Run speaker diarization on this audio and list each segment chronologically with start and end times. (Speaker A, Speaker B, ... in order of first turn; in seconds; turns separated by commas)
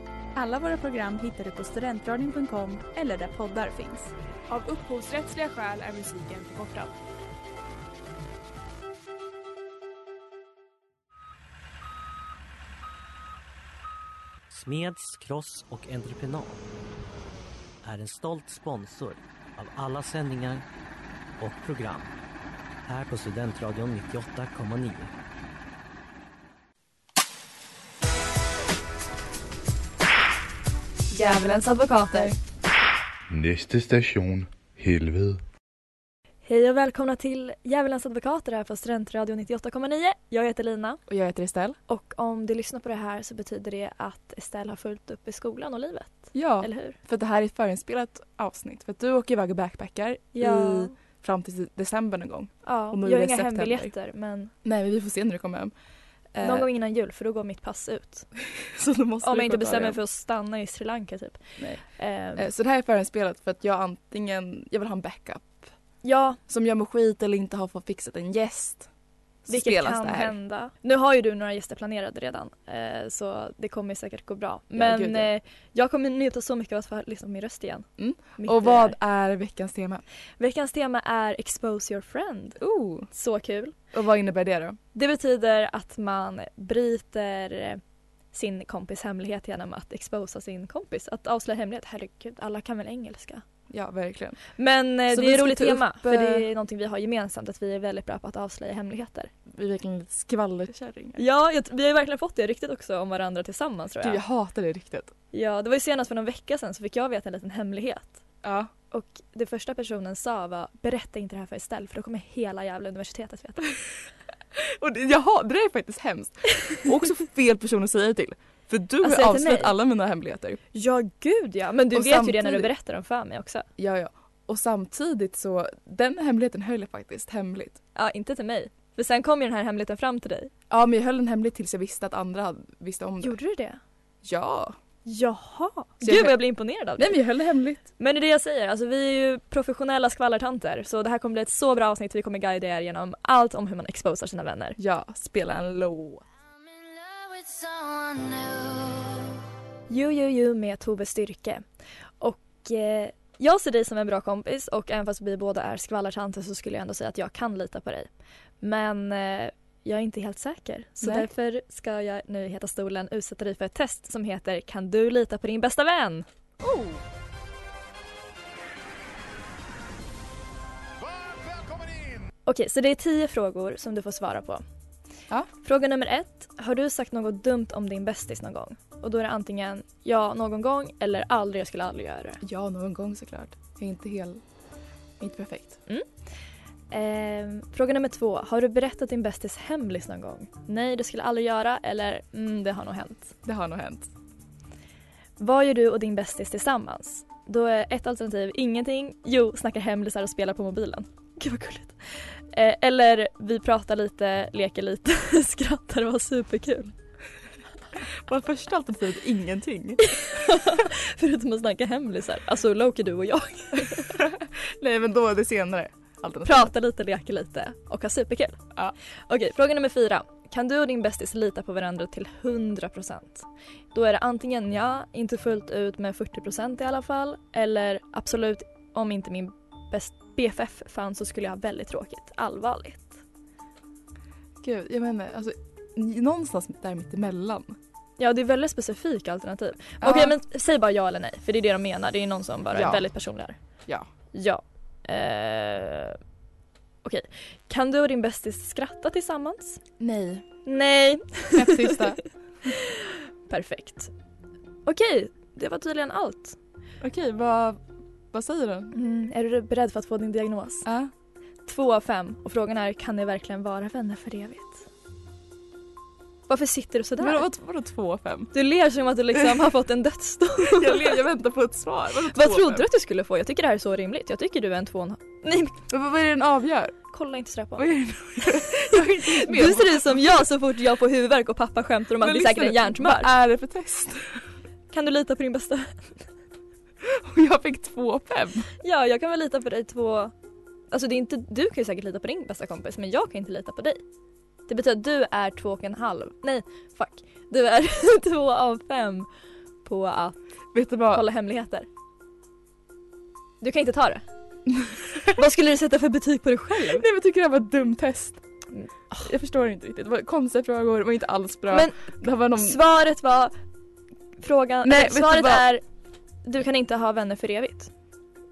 Speaker A: 0.3-4.1, Speaker B: 4.5-6.9, Speaker C: 14.5-16.6, Speaker C: 17.8-20.6, Speaker C: 21.4-22.1, Speaker C: 22.8-25.1, Speaker D: 31.1-32.4, Speaker E: 33.3-35.4, Speaker D: 36.5-41.0, Speaker F: 41.1-41.8, Speaker D: 41.9-47.0, Speaker F: 46.3-53.9, Speaker D: 50.4-50.9, Speaker D: 52.6-54.5, Speaker F: 54.6-55.7, Speaker F: 56.3-56.7, Speaker D: 56.4-58.3, Speaker F: 58.5-60.0, Speaker D: 59.2-62.5, Speaker F: 61.6-61.8, Speaker F: 62.4-65.7, Speaker D: 66.0-66.4, Speaker F: 66.5-68.9, Speaker F: 69.4-70.3, Speaker D: 69.5-77.9, Speaker F: 74.7-75.3, Speaker F: 78.0-80.0, Speaker D: 78.4-79.0, Speaker D: 80.4-82.6, Speaker F: 82.6-83.1, Speaker D: 83.1-83.7, Speaker F: 83.9-84.8, Speaker D: 84.9-87.8, Speaker D: 88.3-93.4, Speaker F: 93.7-94.4, Speaker D: 94.6-99.3, Speaker F: 95.1-96.5, Speaker F: 99.5-101.2, Speaker D: 101.2-104.2, Speaker F: 104.0-105.1, Speaker D: 105.3-108.2, Speaker F: 108.4-108.7, Speaker D: 108.9-113.7, Speaker F: 114.5-120.6, Speaker D: 119.0-119.8, Speaker D: 120.7-123.7, Speaker F: 121.9-122.7, Speaker F: 123.8-127.8, Speaker D: 127.9-130.5, Speaker F: 130.7-133.4, Speaker D: 133.2-133.8, Speaker F: 134.2-134.8, Speaker D: 135.1-137.2, Speaker F: 136.0-136.3, Speaker F: 137.0-137.9, Speaker D: 138.0-144.8, Speaker F: 144.8-146.2, Speaker G: 146.8-149.2, Speaker D: 147.4-147.7, Speaker D: 149.9-151.6, Speaker D: 152.2-158.1, Speaker D: 158.6-166.2, Speaker F: 161.0-161.3, Speaker F: 166.6-166.9, Speaker D: 172.4-174.6, Speaker D: 175.6-182.4, Speaker F: 182.4-184.4, Speaker F: 185.2-185.8, Speaker D: 186.9-193.3, Speaker F: 193.4-194.1, Speaker D: 195.4-206.9, Speaker F: 208.2-210.0, Speaker D: 210.0-214.2, Speaker F: 213.9-216.7, Speaker D: 216.4-218.6, Speaker D: 219.3-233.2, Speaker F: 234.6-237.8, Speaker D: 238.2-243.6, Speaker F: 240.0-240.4, Speaker F: 242.7-243.1, Speaker D: 244.3-246.2, Speaker D: 247.0-249.8, Speaker F: 250.0-250.4, Speaker D: 250.6-252.0, Speaker F: 251.5-252.2, Speaker D: 252.7-254.1, Speaker D: 254.9-256.6, Speaker F: 257.0-258.9, Speaker D: 258.9-260.9, Speaker F: 260.8-261.1, Speaker D: 261.6-264.8, Speaker D: 266.5-267.4, Speaker F: 267.2-268.5, Speaker D: 268.5-271.2, Speaker F: 270.6-272.9, Speaker D: 272.2-275.8, Speaker F: 275.9-276.9, Speaker D: 277.1-283.3, Speaker F: 277.8-280.2, Speaker F: 282.2-284.4, Speaker D: 284.9-286.2, Speaker F: 287.0-288.7, Speaker D: 288.8-290.3, Speaker D: 290.9-294.0, Speaker D: 294.7-299.3, Speaker D: 299.8-300.4, Speaker F: 300.7-301.2, Speaker D: 301.1-301.9, Speaker D: 303.6-304.2, Speaker F: 304.7-305.3, Speaker D: 305.2-307.1, Speaker F: 306.8-308.4, Speaker D: 308.7-309.3, Speaker F: 309.1-312.8, Speaker D: 311.7-313.5, Speaker D: 314.4-315.8, Speaker F: 314.8-315.7, Speaker D: 316.4-317.9